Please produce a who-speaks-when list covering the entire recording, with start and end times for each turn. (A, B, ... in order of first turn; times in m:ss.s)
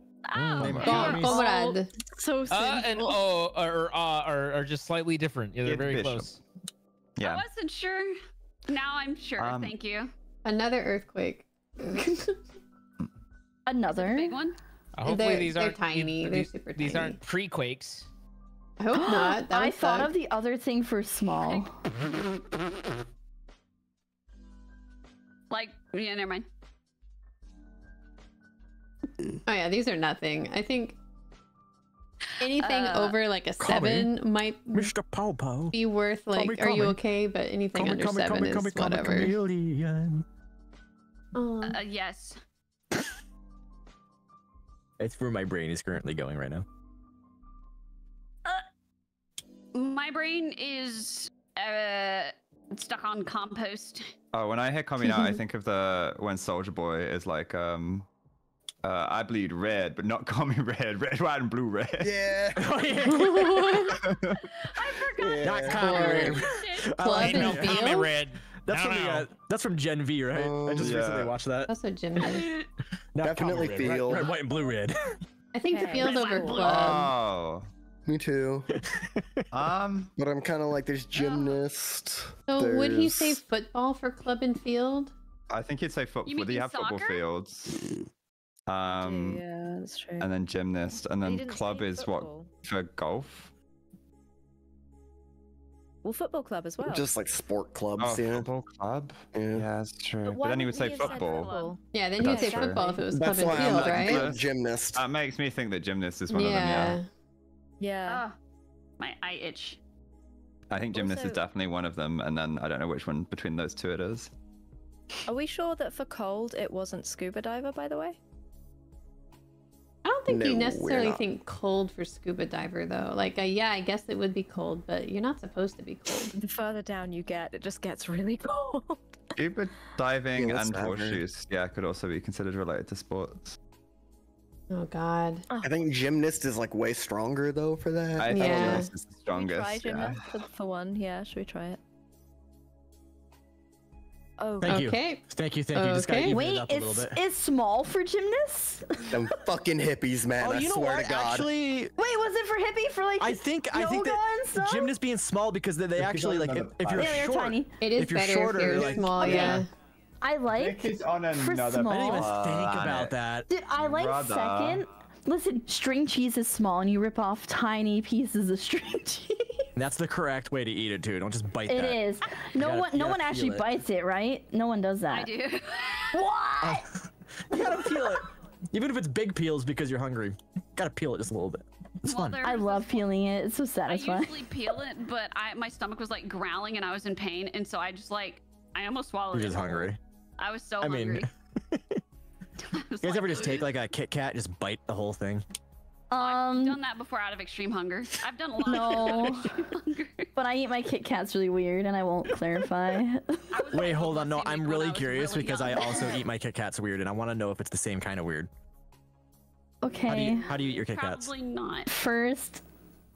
0:00.3-0:01.2 A
0:00.3-0:01.4 B
0:00.6-0:01.2 C
0:00.8-0:01.9 D
0:00.8-0:03.2 E
0:02.5-0:06.4 F
0:05.6-0:06.4 C
0:07.2-0:07.4 C
0:07.2-0:08.1 A
0:08.7-0:10.1 A
0:09.4-0:09.7 C
0:10.4-0:12.3 D
0:13.6-0:14.4 G
0:13.9-0:14.6 A
0:15.0-0:18.1 F
0:15.0-0:17.2 D
0:18.8-0:20.1 D
0:18.9-0:21.8 G
0:25.5-0:26.4 A
0:29.4-0:31.0 D
0:32.4-0:34.9 D
0:32.4-0:33.2 A
0:33.6-0:34.1 B
0:34.7-0:35.7 B
0:35.7-0:39.4 D
0:36.3-0:37.0 B
0:37.7-0:40.2 B
0:41.3-0:41.8 D
0:41.6-0:42.4 A
0:45.0-0:46.6 B
0:49.7-0:54.1 A
0:54.3-0:58.1 C
0:58.8-1:02.1 C
1:02.0-1:02.6 H
1:02.6-1:03.8 B
1:03.0-1:04.0 D
1:03.9-1:04.4 C
1:04.8-1:05.6 A
1:05.1-1:06.4 H
1:05.4-1:08.0 B
1:05.6-1:06.5 D
1:06.4-1:07.0 A
1:07.0-1:08.1 D
1:07.1-1:09.3 F
1:08.6-1:11.7 B
1:10.3-1:10.9 H
1:10.7-1:11.4 C
1:11.7-1:12.5 D
1:13.1-1:15.0 B
1:13.2-1:14.3 H
1:15.5-1:17.1 D
1:15.6-1:16.9 I
1:16.0-1:17.0 A
1:16.5-1:17.7 C
1:18.0-1:18.7 H
1:18.8-1:19.2 B
1:19.5-1:20.1 C
1:20.2-1:23.4 H
1:21.1-1:21.6 A
1:22.5-1:25.1 D
1:25.5-1:27.8 C
1:26.2-1:27.2 A
1:28.7-1:29.4 C
1:28.8-1:30.3 I
1:30.2-1:33.5 C
1:31.2-1:32.5 I
1:36.0-1:37.1 I
1:36.8-1:38.5 H
1:38.0-1:41.5 C
1:39.3-1:39.7 H
1:40.2-1:43.0 I
1:40.7-1:41.8 A
1:41.9-1:44.2 D
1:42.2-1:43.0 C
1:42.6-1:45.0 H
1:43.6-1:44.4 C
1:44.9-1:47.0 C
1:46.3-1:47.0 D
1:47.8-1:48.2 I
1:48.1-1:48.3 A
1:49.0-1:49.8 A
1:50.7-1:54.3 C
1:51.0-1:51.3 D
1:55.3-1:58.2 I
2:00.0-2:06.3 D
2:00.3-2:01.2 H
2:06.3-2:09.2 I
2:09.4-2:13.6 C
2:10.3-2:11.2 H
2:14.7-2:15.5 D
2:15.5-2:15.8 I
2:15.6-2:18.9 H
2:18.2-2:20.2 C
2:18.3-2:18.9 D
2:19.3-2:21.8 I
2:24.4-2:24.9 I
2:24.6-2:27.2 B
2:24.6-2:26.4 D
2:26.3-2:29.2 G
2:29.1-2:31.5 H
2:30.4-2:31.9 B
2:32.0-2:35.0 G
2:33.2-2:39.6 B
2:36.0-2:37.2 C
2:37.0-2:37.7 G
2:37.8-2:39.7 D
2:38.7-2:39.6 C
2:39.2-2:39.6 G
2:40.2-2:42.4 G
2:40.5-2:43.1 C
2:41.9-2:43.5 B
2:43.5-2:49.7 G
2:43.8-2:44.8 C
2:49.8-2:52.0 B
2:51.6-2:55.3 G
2:52.6-2:53.7 B
2:55.1-2:56.3 A
2:56.1-2:56.8 G
2:56.6-2:56.9 B
2:57.5-3:02.4 B
3:02.0-3:03.0 A
3:02.4-3:04.4 G
3:03.8-3:11.3 A
3:09.3-3:10.0 B
3:10.8-3:12.0 B
3:12.6-3:13.6 A
3:13.0-3:15.4 B
3:16.1-3:16.8 G
3:16.2-3:20.3 A
3:18.6-3:19.5 G
3:20.4-3:23.5 G
3:23.5-3:26.2 A
3:23.7-3:28.5 B
3:29.8-3:30.5 G
3:30.0-3:31.3 B
3:30.3-3:31.9 A
3:31.9-3:32.6 G